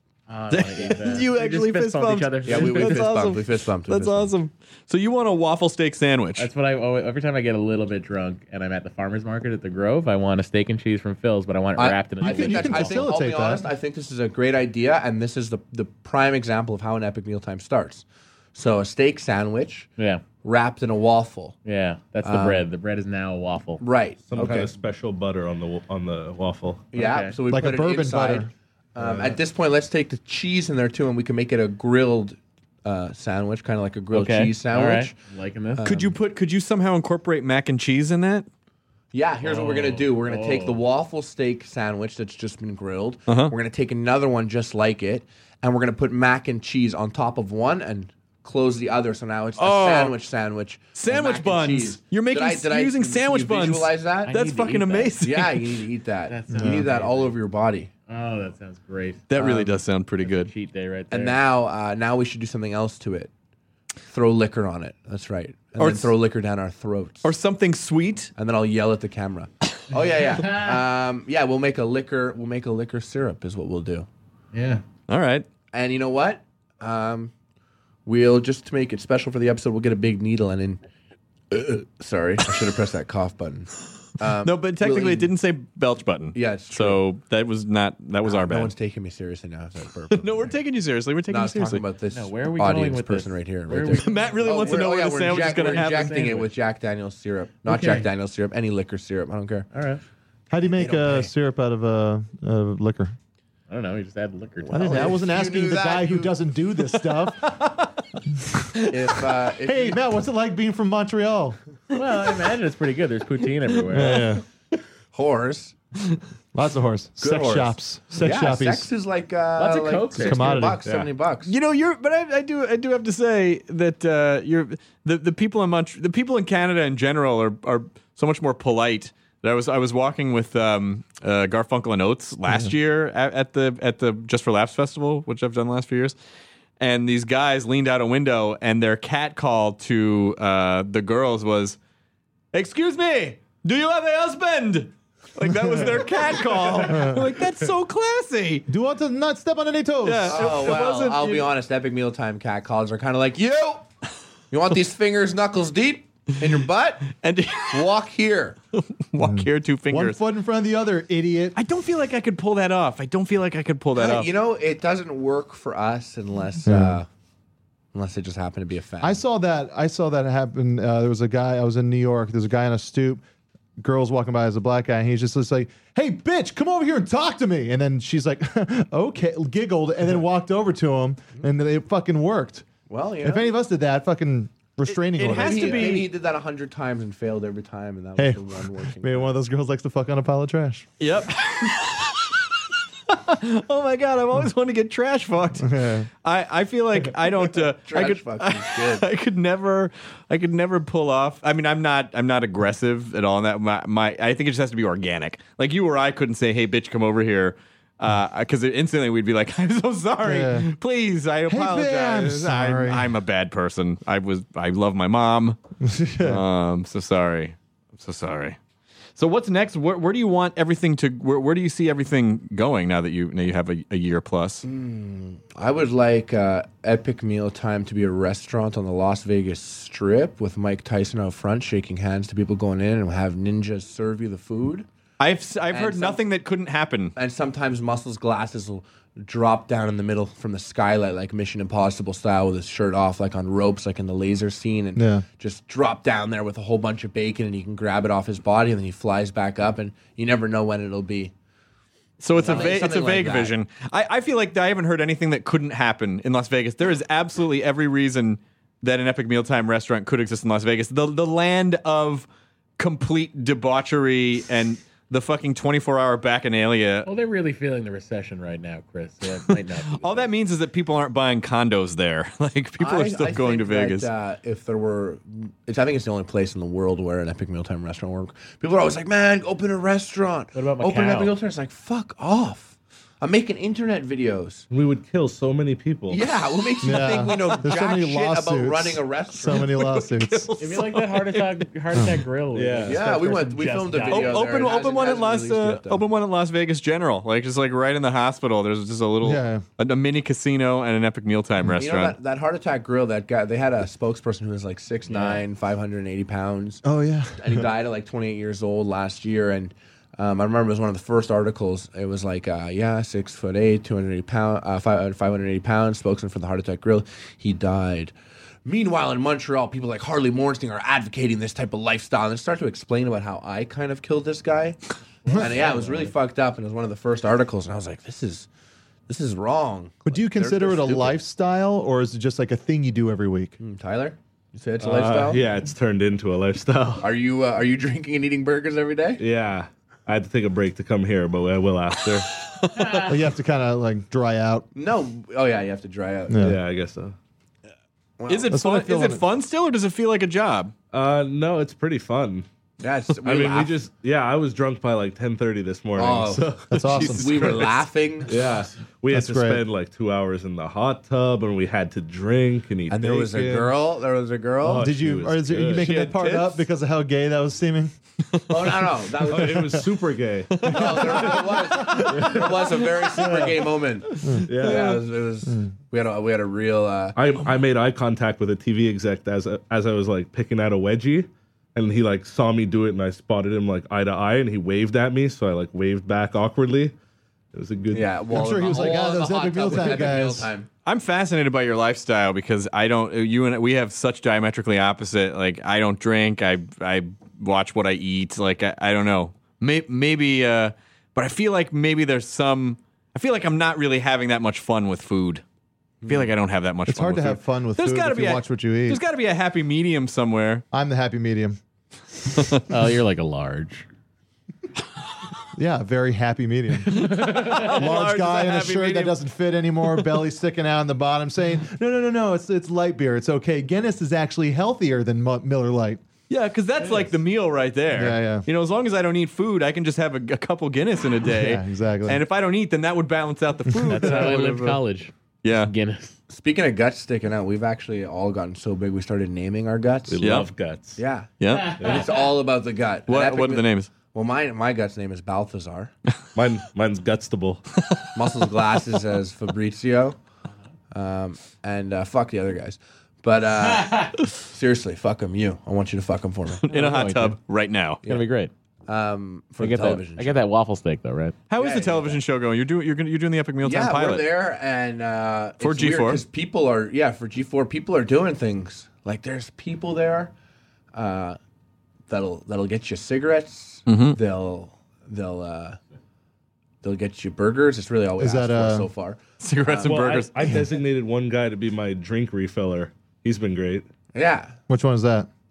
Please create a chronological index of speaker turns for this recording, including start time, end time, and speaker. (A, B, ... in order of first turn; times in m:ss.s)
0:00.3-0:03.3 A
0:00.5-0:06.5 B
0:02.4-0:04.3 C
0:06.4-0:13.1 A
0:11.8-0:21.6 C
0:12.2-0:13.7 D
0:20.0-0:20.3 A
0:21.6-0:23.8 A
0:22.2-0:22.6 C
0:23.8-0:24.7 C
0:24.3-0:26.9 E
0:26.9-0:35.2 C
0:26.9-0:27.4 A
0:27.5-0:28.5 D
0:29.0-0:29.3 E
0:34.1-0:35.8 A
0:35.8-0:36.1 C
0:35.8-0:38.5 B
0:39.1-0:54.4 C
0:39.4-0:40.8 A
0:43.3-0:43.5 B
0:49.6-0:50.1 B
0:50.9-0:55.8 B
0:54.3-0:55.2 A
0:55.2-0:57.9 C
0:56.3-0:57.4 A
0:56.5-0:56.8 D
0:58.1-0:59.3 A
0:59.3-1:00.5 B
0:59.4-0:59.8 C
1:00.2-1:01.4 A
1:01.1-1:03.3 C
1:04.1-1:07.3 C
1:05.8-1:06.1 B
1:07.2-1:08.3 B
1:08.4-1:14.1 C
1:10.4-1:10.8 A
1:14.5-1:14.8 A
1:15.1-1:15.4 B
1:15.7-1:17.3 C
1:18.0-1:20.8 C
1:21.5-1:25.3 C
1:24.4-1:28.7 B
1:26.3-1:27.0 C
1:28.2-1:30.5 C
1:30.1-1:31.8 B
1:31.3-1:39.7 C
1:32.1-1:36.5 A
1:34.0-1:36.2 B
1:37.6-1:38.1 A
1:39.7-1:40.0 A
1:40.5-1:43.1 D
1:40.8-1:41.3 C
1:43.7-1:45.2 A
1:44.7-1:47.6 D
1:44.7-1:46.3 C
1:47.6-1:47.8 B
1:48.9-1:50.0 C
1:49.6-1:51.6 D
1:51.9-1:54.3 A
1:53.9-1:54.4 D
1:55.1-1:55.8 C
1:56.5-1:58.9 D
1:57.2-2:01.5 C
1:59.6-2:00.7 A
2:00.2-2:00.8 D
2:01.4-2:16.2 B
2:16.8-2:21.8 B
2:22.5-2:28.6 B
2:26.9-2:27.2 D
2:28.7-2:30.8 D
2:30.0-2:31.5 B
2:30.2-2:33.8 C
2:34.5-2:37.2 C
2:37.2-2:37.8 B
2:37.7-2:38.6 C
2:38.8-2:40.2 B
2:39.2-2:41.6 D
2:41.6-2:44.3 B
2:43.9-2:47.1 C
2:46.6-2:47.0 D
2:47.9-2:49.2 C
2:49.0-2:53.2 D
2:53.8-3:02.6 D
3:02.9-3:03.5 C
3:03.2-3:06.0 D
3:04.9-3:06.1 B
3:05.3-3:09.3 C
3:08.2-3:10.9 D
3:11.0-3:12.4 B
3:13.1-3:35.6 B
3:15.6-3:16.1 D
3:17.9-3:19.0 C
3:30.2-3:30.7 D
3:31.5-3:33.1 D
3:35.8-3:36.4 D
3:36.2-3:38.6 B
3:39.2-3:44.6 B
3:44.6-3:54.8 C
3:55.2-3:57.1 B
3:55.7-3:56.2 C
3:57.2-4:11.3 C
4:05.0-4:05.2 D
4:12.2-4:22.3 B
4:12.3-4:13.5 C
4:22.8-4:27.1 B
4:27.0-4:30.3 A
4:29.9-4:34.1 B
4:32.8-4:44.7 C
4:40.5-4:41.4 A
4:44.7-4:46.2 E
4:46.1-4:50.0 C
4:46.8-4:50.5 D
4:49.6-4:51.6 B
4:50.6-4:54.5 A
4:51.9-4:52.2 D
4:52.5-4:53.0 E
4:52.8-4:56.0 C
4:54.1-5:02.2 B
4:59.2-4:59.6 D
5:01.8-5:06.8 C
5:05.1-5:05.4 A
5:06.8-5:07.7 D
5:07.4-5:28.5 C
5:25.3-5:26.1 A
5:25.3-5:25.6 D
5:29.1-5:31.2 C
5:30.0-5:33.6 D
5:33.6-5:35.4 C
5:34.8-5:37.1 E
5:37.0-5:39.2 C
5:39.2-5:42.3 E
5:42.6-5:43.0 B
5:43.0-5:44.7 D
5:44.7-5:46.5 C
5:46.3-5:46.6 D
5:46.4-5:47.2 E
5:48.2-5:48.6 C
5:48.3-5:50.7 B
5:48.5-5:49.2 D
5:50.9-5:52.5 E
5:52.8-5:53.8 C
5:53.2-5:56.7 E
5:56.0-5:58.4 C
5:56.7-5:57.6 D
5:56.8-5:57.8 B
5:58.2-6:03.7 E
5:59.1-5:59.6 D
6:02.9-6:04.9 C
6:04.6-6:05.9 E
6:04.6-6:07.9 D
6:05.7-6:06.6 C
6:08.5-6:09.8 C
6:09.3-6:10.7 E
6:09.4-6:09.7 D
6:10.5-6:12.1 B
6:10.6-6:17.2 C
6:10.6-6:12.3 D
6:12.1-6:12.4 E
6:14.2-6:15.7 D
6:14.4-6:15.0 E
6:17.2-6:26.9 E
6:27.5-6:28.1 E
6:27.9-6:30.7 C
6:28.3-6:30.5 D
6:30.8-6:45.4 B
6:46.0-6:46.3 C
6:46.0-6:50.6 B
6:46.9-6:49.0 D
6:50.7-6:51.6 D
6:52.7-6:53.9 A
6:55.5-7:06.0 D
6:56.9-6:59.2 B
6:57.2-6:57.6 A
7:06.3-7:14.8 B
7:07.9-7:08.4 D
7:11.2-7:12.2 D
7:13.9-7:16.2 A
7:15.4-7:15.7 B
7:16.3-7:20.2 C
7:20.1-7:21.0 E
7:20.2-7:20.5 B
7:21.0-7:25.9 C
7:21.4-7:21.9 B
7:23.1-7:23.9 B
7:26.3-7:27.6 E
7:28.1-7:30.2 C
7:30.9-7:36.6 C
7:36.7-7:38.0 B
7:36.7-7:37.4 A
7:38.0-7:38.5 A
7:38.9-7:40.4 C
7:39.6-7:41.4 A
7:41.5-7:44.2 B
7:41.6-7:42.2 C
7:43.6-7:50.3 C
7:45.6-7:46.2 B
7:50.9-7:51.4 C
7:52.1-7:55.8 C
7:53.9-7:54.2 B
7:56.8-8:00.0 C
7:58.2-7:58.9 D
7:59.4-8:00.3 B
7:59.8-8:03.8 E
8:04.1-8:04.6 C
8:04.7-8:05.3 D